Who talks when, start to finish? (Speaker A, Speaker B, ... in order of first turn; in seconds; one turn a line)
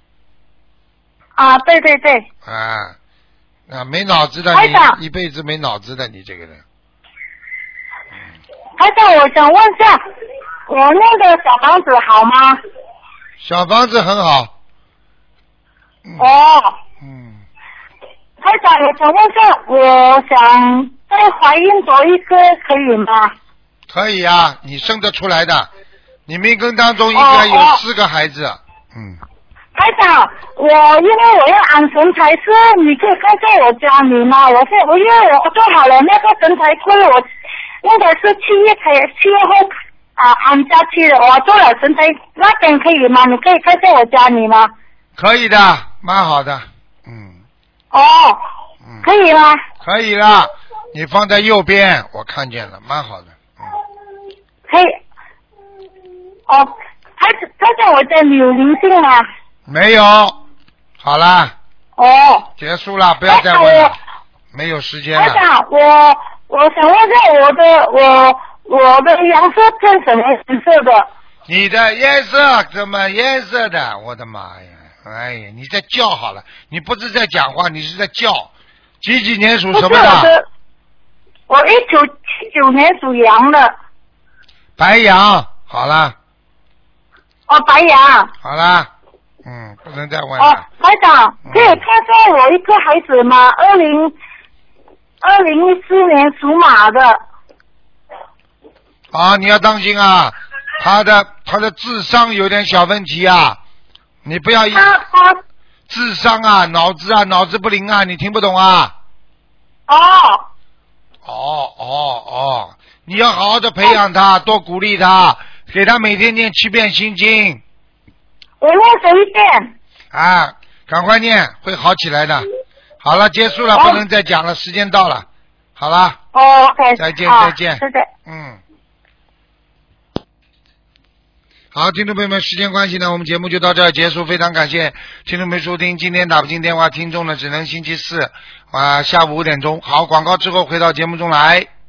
Speaker A: 1.4-2.2
Speaker B: 2.4-3.0
Speaker B: 3.7-6.6
Speaker A: 4.5-5.0
Speaker A: 8.8-10.0
Speaker A: 10.7-12.6
Speaker B: 13.4-14.5
Speaker B: 16.0-16.4
Speaker A: 16.2-16.8
Speaker B: 17.0-17.4
Speaker A: 18.4-23.3
Speaker B: 23.9-25.7
Speaker B: 26.3-29.2
Speaker A: 27.1-27.8
Speaker A: 29.7-37.2
Speaker A: 37.8-44.7
Speaker B: 45.2-47.4
Speaker A: 47.9-48.4
Speaker A: 49.0-49.6
Speaker B: 49.8-53.8
Speaker A: 54.7-55.0
Speaker A: 56.5-59.2
Speaker B: 59.7-60.4
Speaker B: 61.0-61.5
Speaker A: 62.0-62.5
Speaker B: 62.6-64.0
Speaker A: 63.3-63.9
Speaker B: 64.5-65.4
Speaker A: 65.1-71.1
Speaker B: 71.5-80.3
Speaker A: 79.7-80.5
Speaker A: 81.5-83.7
Speaker B: 84.8-86.2
Speaker A: 87.5-88.3
Speaker B: 88.4-88.9
Speaker B: 89.4-90.6
Speaker A: 90.4-94.1
Speaker B: 91.4-91.8
Speaker A: 95.2-97.2
Speaker B: 99.1-103.6
Speaker B: 104.2-105.0
Speaker A: 104.7-105.4
Speaker B: 105.9-108.9
Speaker A: 109.9-110.5
Speaker B: 111.2-117.6
Speaker A: 118.6-119.7
Speaker B: 120.1-122.5
Speaker B: 123.0-125.2
Speaker A: 123.7-124.0
Speaker B: 125.8-126.2
Speaker A: 126.3-128.1
Speaker B: 127.0-128.6
Speaker B: 131.7-141.7